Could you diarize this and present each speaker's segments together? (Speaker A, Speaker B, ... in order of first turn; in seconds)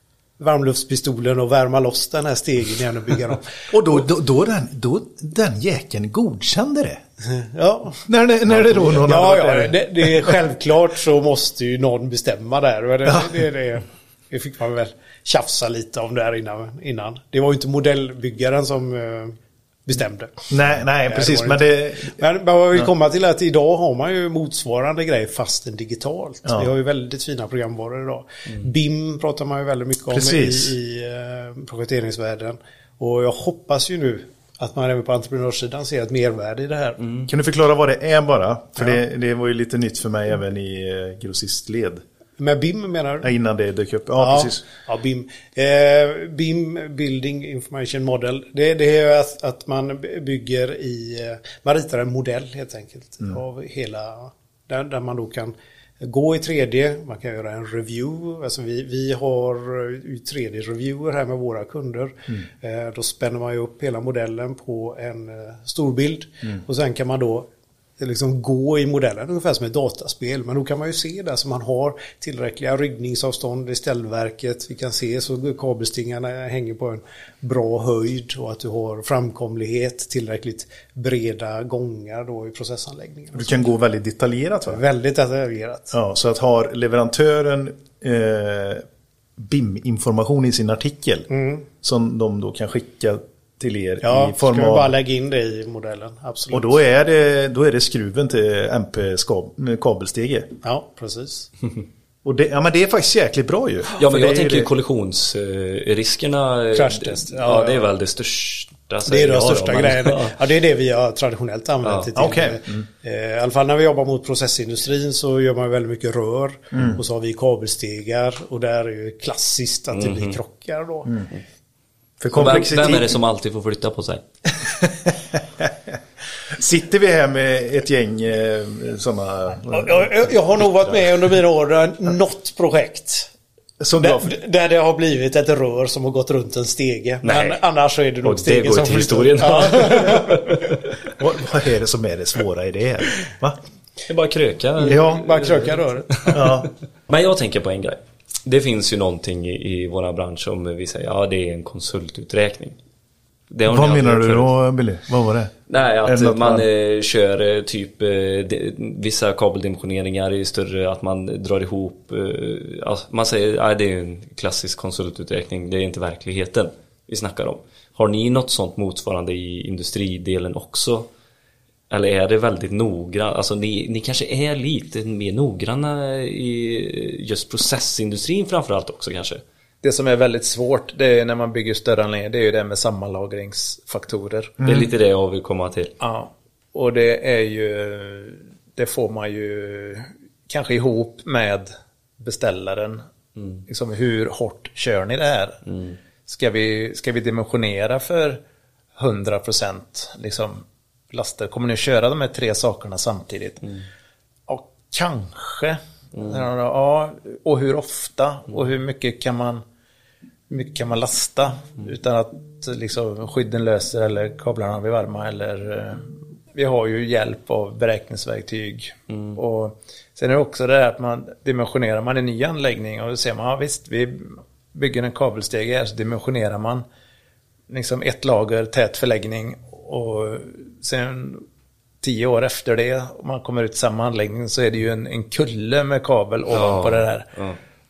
Speaker A: 0.4-3.7, 7.3-8.0, 8.6-20.5, 21.1-37.0, 42.4-43.3, 44.2-67.5, 68.0-83.7, 84.7-85.9, 91.3-91.7, 94.0-96.8, 100.6-101.5, 106.7-107.9, 109.0-121.2, 129.7-133.3, 134.0-140.6, 144.8-146.5
Speaker B: 3.7-7.0, 8.1-10.3, 20.5-22.2, 30.1-30.7, 37.3-42.0, 43.2-44.6, 83.3-84.8, 85.9-88.8, 89.4-91.3, 91.8-94.9, 96.5-100.5, 102.2-104.7, 112.2-112.9, 116.7-117.0, 122.2-123.2, 124.7-125.7, 126.5-130.1, 133.8-134.3, 141.2-143.6, 144.8-145.3, 146.3-146.7, 153.7-155.5, 156.1-156.7, 184.6-184.9
Speaker C: 37.0-37.3, 104.0-110.3, 111.8-112.3, 119.9-120.4, 122.3-124.2, 137.2-137.6, 138.2-140.6, 144.1-146.6, 147.1-152.8, 153.5-154.5, 155.7-171.1, 171.9-179.4, 184.6-185.9, 193.4-193.7, 195.7-196.0, 206.2-206.4, 219.1-219.4, 236.5-237.6
Speaker D: 179.8-184.6, 186.0-193.0, 193.7-195.6, 196.3-198.4, 199.0-203.7, 204.5-209.6, 210.5-226.8, 227.7-231.4, 232.0-237.3